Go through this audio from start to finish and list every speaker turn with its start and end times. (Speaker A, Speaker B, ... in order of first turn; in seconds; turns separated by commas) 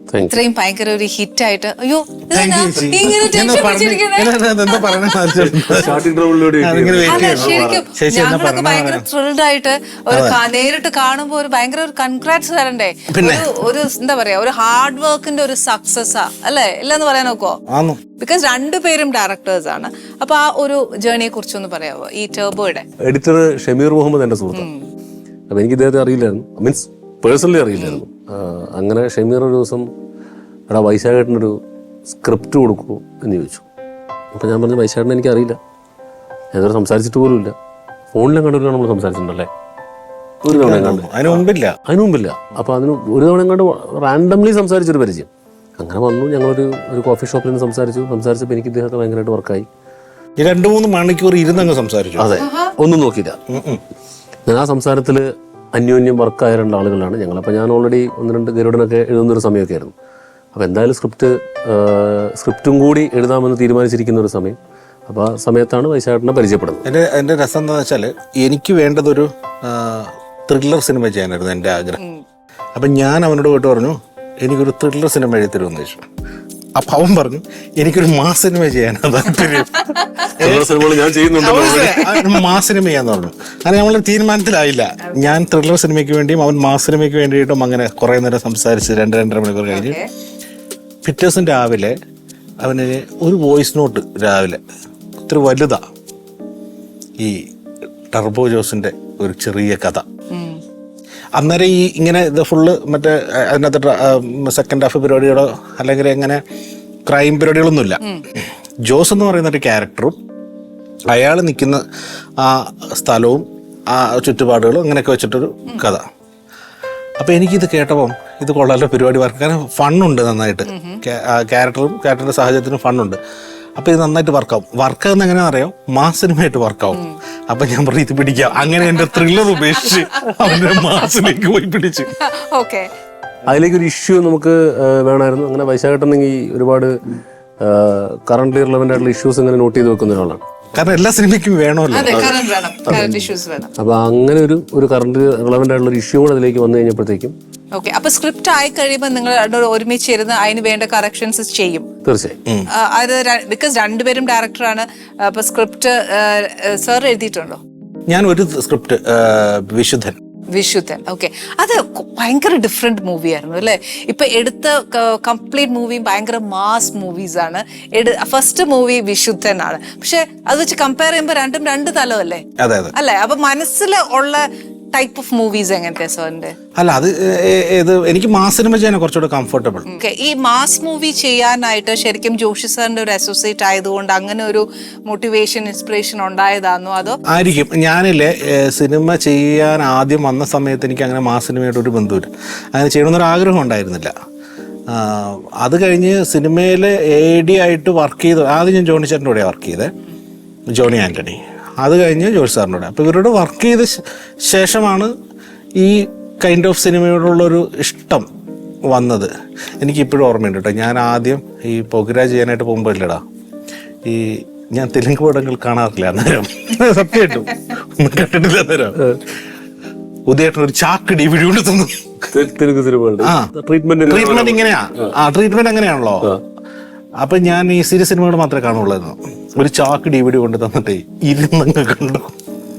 Speaker A: 0.1-0.4, Speaker B: 0.3-5.2, Speaker C: 2.3-6.0, Speaker A: 5.5-7.8, Speaker C: 6.6-9.1, Speaker B: 7.0-17.6, Speaker C: 10.1-10.4, Speaker C: 13.1-13.5, Speaker C: 17.7-18.0, Speaker B: 18.2-22.9, Speaker A: 23.0-24.7, Speaker B: 24.6-24.9, Speaker A: 25.5-29.9, Speaker A: 30.7-33.7, Speaker A: 34.3-35.6, Speaker A: 36.5-37.5, Speaker A: 38.1-39.5, Speaker C: 40.5-41.8, Speaker A: 40.5-49.7, Speaker C: 50.4-52.3, Speaker A: 52.2-53.4, Speaker B: 52.4-52.7, Speaker C: 53.5-53.8, Speaker A: 54.5-59.9, Speaker A: 60.5-66.9, Speaker C: 66.8-72.0, Speaker C: 72.8-76.0, Speaker C: 76.8-80.8, Speaker A: 80.4-82.1, Speaker C: 81.4-90.0, Speaker B: 81.4-82.3, Speaker B: 89.7-90.1, Speaker C: 91.0-91.9, Speaker C: 92.6-94.6, Speaker C: 95.2-95.8, Speaker C: 98.1-100.1, Speaker B: 100.3-100.6, Speaker C: 101.4-106.4, Speaker C: 107.1-108.0, Speaker C: 108.8-110.2, Speaker C: 111.1-111.8, Speaker C: 112.4-116.0, Speaker C: 117.2-123.2, Speaker B: 120.7-121.0, Speaker C: 123.8-132.1, Speaker B: 130.6-130.8, Speaker B: 132.2-132.9, Speaker A: 133.5-136.9, Speaker A: 137.6-140.4, Speaker C: 140.8-142.5, Speaker B: 141.9-143.7, Speaker A: 142.9-143.3, Speaker A: 143.8-147.3, Speaker B: 147.8-151.9, Speaker A: 152.1-152.4, Speaker B: 152.7-157.6, Speaker C: 158.1-160.2, Speaker B: 160.5-172.4, Speaker C: 172.6-172.9, Speaker B: 172.9-176.6, Speaker C: 176.8-179.9, Speaker B: 179.9-187.2, Speaker C: 187.3-194.1, Speaker C: 194.9-199.9, Speaker C: 200.7-205.1, Speaker C: 205.8-208.2, Speaker C: 208.9-213.2, Speaker C: 214.1-219.0, Speaker C: 220.3-221.9, Speaker A: 222.3-224.6, Speaker C: 223.2-223.5, Speaker C: 224.1-226.3, Speaker C: 227.2-232.3